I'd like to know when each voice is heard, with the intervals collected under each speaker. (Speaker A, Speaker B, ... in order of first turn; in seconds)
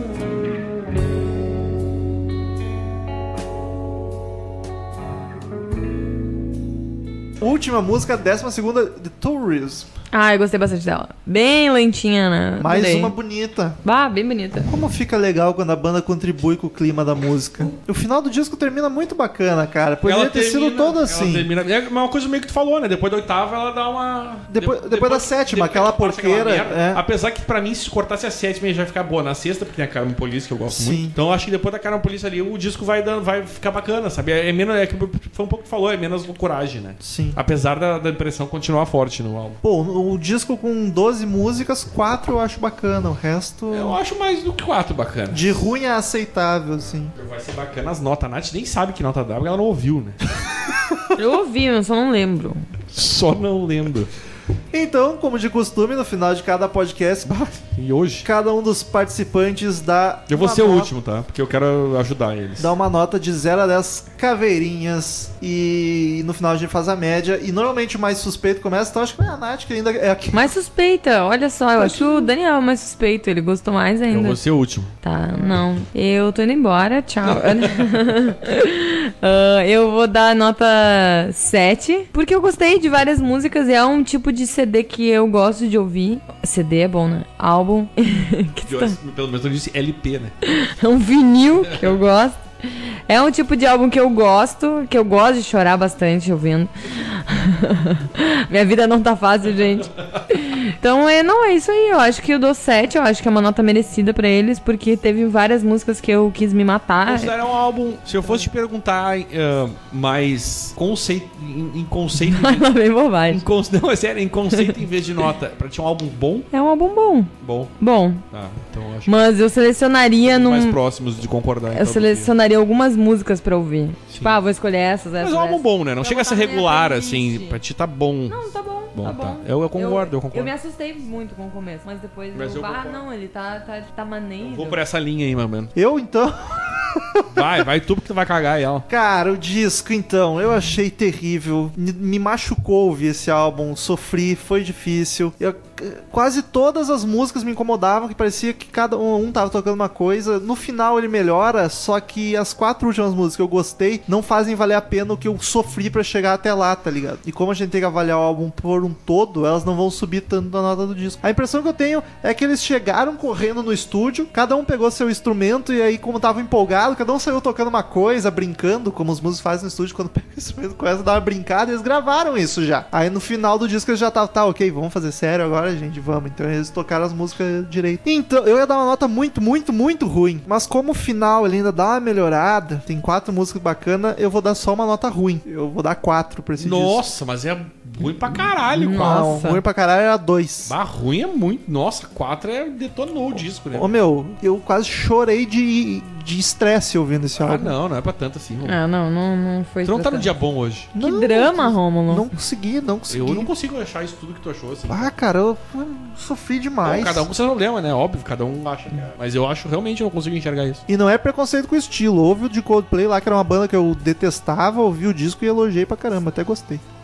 Speaker A: 7.4-9.9, 12.6-13.8, 14.7-21.5, 24.5-27.0, 30.7-31.1, 37.0-37.4, 39.6-44.0, 45.3-47.1, 54.7-57.6, 58.2-60.9, 62.6-70.5, 71.8-72.3, 135.7-137.5, 138.9-187.0, 188.9-190.7, 193.7-197.8, 200.9-203.5, 204.9-207.3, 210.9-216.8
Speaker B: 10.1-13.1, 13.8-14.7, 51.1-52.7, 70.3-74.4, 75.0-89.0, 90.4-107.3, 112.2-113.4, 114.5-114.8, 116.5-118.2, 119.0-120.8, 121.7-127.6, 128.3-134.8, 188.6-189.6, 198.6-200.3, 201.0-202.3
Speaker C: 20.0-39.6, 43.7-45.6, 47.1-50.2, 52.9-54.1, 57.6-58.3, 60.3-62.7, 74.1-74.9, 77.2-77.9, 88.6-90.3, 107.0-112.7, 113.3-116.5, 117.4-117.7, 118.3-119.2, 120.2-122.3, 125.2-130.5, 132.3-133.0, 134.4-135.7, 137.3-138.8, 186.6-189.3, 190.7-194.0, 197.4-198.8, 199.8-200.9, 203.1-205.1, 206.8-210.8